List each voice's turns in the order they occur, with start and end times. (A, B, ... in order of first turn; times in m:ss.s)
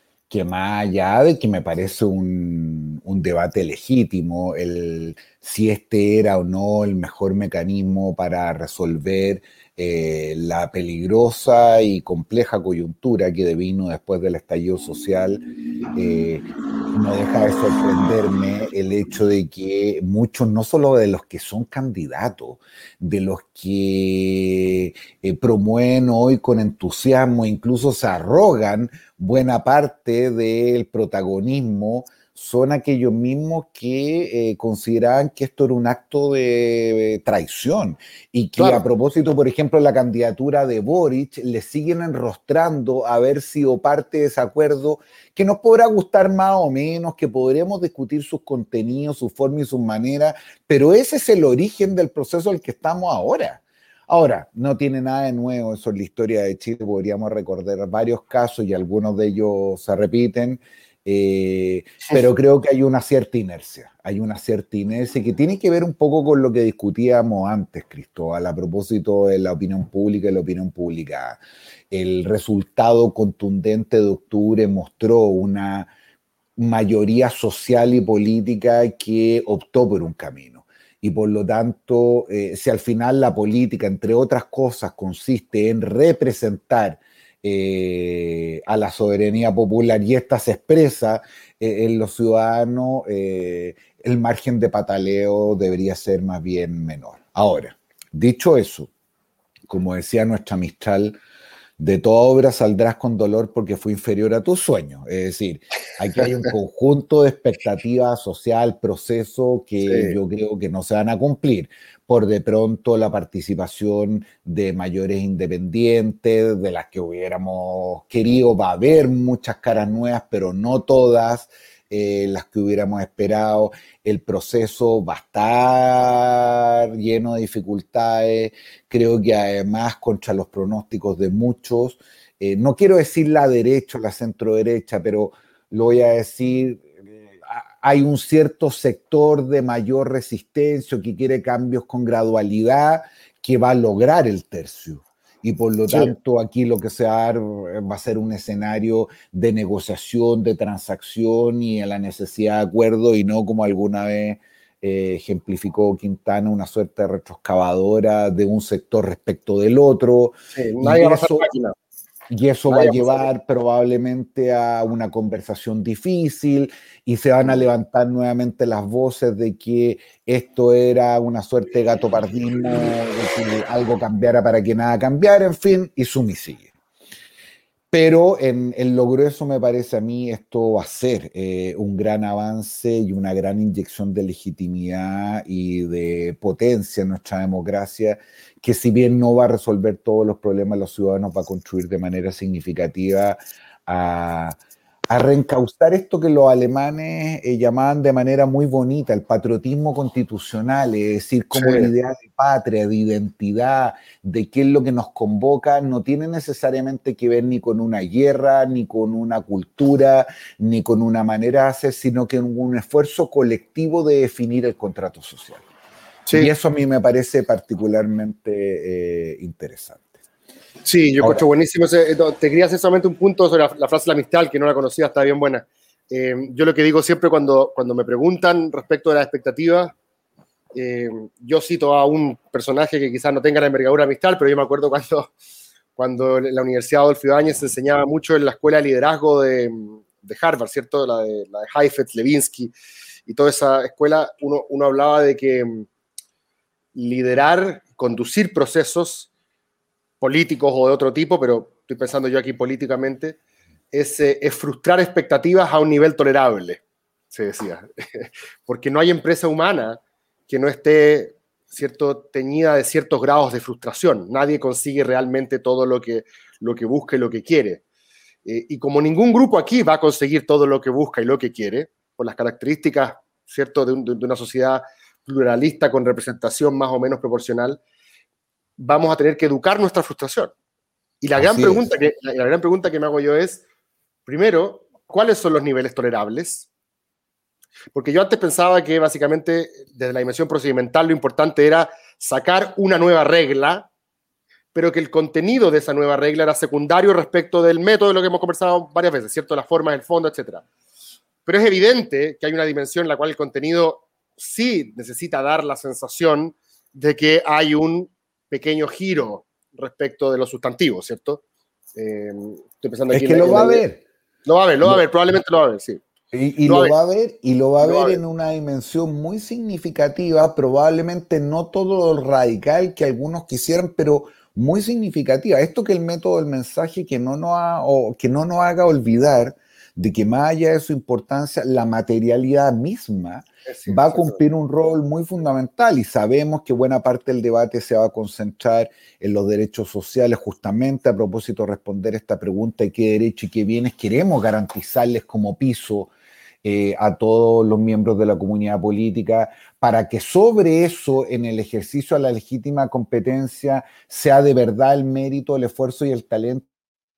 0:00.3-1:15.9 A
0:38.6-0:38.8 B
1:16.6-1:38.9 A
1:39.7-1:41.2 A
1:41.8-2:41.5 A
1:49.9-1:50.2 B
2:40.5-2:41.7 B
2:42.3-2:56.7 A
2:42.7-2:43.2 B
2:57.9-3:14.6 A
3:15.1-3:35.7 A
3:21.5-3:21.9 B
3:36.3-3:40.2 A
3:40.8-3:49.9 B
3:41.2-3:41.4 A
3:50.8-3:55.3 B
3:56.0-4:02.7 B
4:03.3-4:05.9 B
4:07.0-4:09.3 B
4:10.2-4:13.4 B
4:13.9-4:27.8 B
4:28.4-4:37.8 B
4:38.8-4:40.5 B
4:41.2-4:43.6 B
4:41.4-4:41.9 A
4:44.3-4:46.7 B
4:47.9-4:53.9 B
4:54.7-5:00.6 B
5:01.5-5:11.4 B
5:12.0-5:13.8 B
5:13.1-5:14.0 A
5:14.5-5:16.0 B
5:16.3-5:46.1 A
5:16.6-5:17.0 B
5:17.8-5:18.2 B
5:33.7-5:34.4 B
5:46.6-5:56.7 A